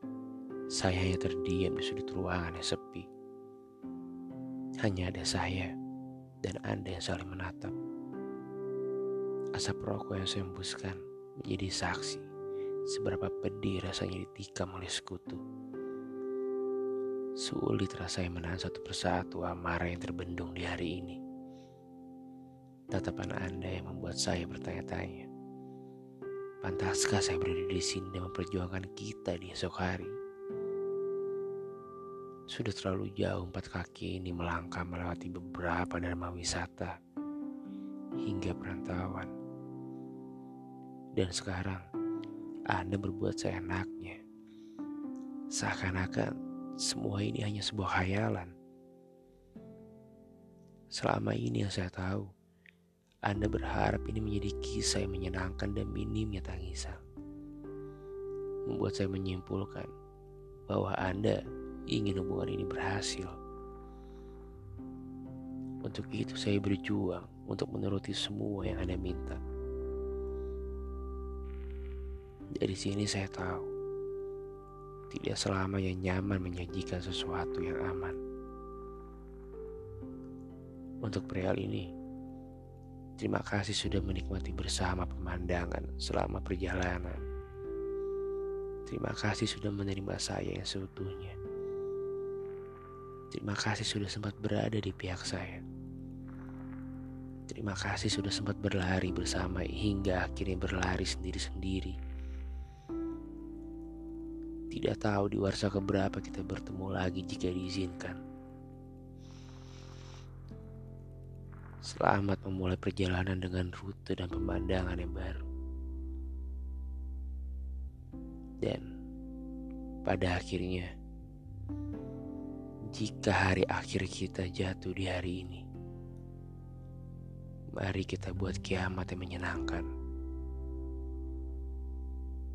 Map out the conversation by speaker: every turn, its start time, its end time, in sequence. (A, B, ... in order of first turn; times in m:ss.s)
0:00.7-0:03.1 A
0:04.8-0:05.7 A
0:06.4-0:07.8 A
0:09.6-0:12.3 A
0:12.9-0:15.4 A
0:17.4-0:21.2 A
0:22.9-0:25.3 A
0:26.6-0:30.1 A
0:32.5-0:37.0 A
0:38.2-0:39.3 A
0:41.2-0:41.8 A
0:42.7-0:44.2 A
0:45.6-0:48.5 A
0:50.9-0:52.3 A
0:53.3-0:57.0 A
0:58.7-0:59.9 A
1:00.7-1:01.4 A
1:01.9-1:03.3 A
1:05.8-1:09.4 A
1:12.6-1:13.7 A
1:15.1-1:18.2 A
1:21.0-1:21.9 A
1:23.2-1:27.2 A
1:28.9-1:31.4 A
1:33.3-1:35.6 A
1:37.5-1:42.0 A
1:44.7-1:48.2 A
1:51.8-1:55.5 A
2:00.0-2:00.9 A
2:02.9-2:05.6 A
2:07.8-2:09.9 A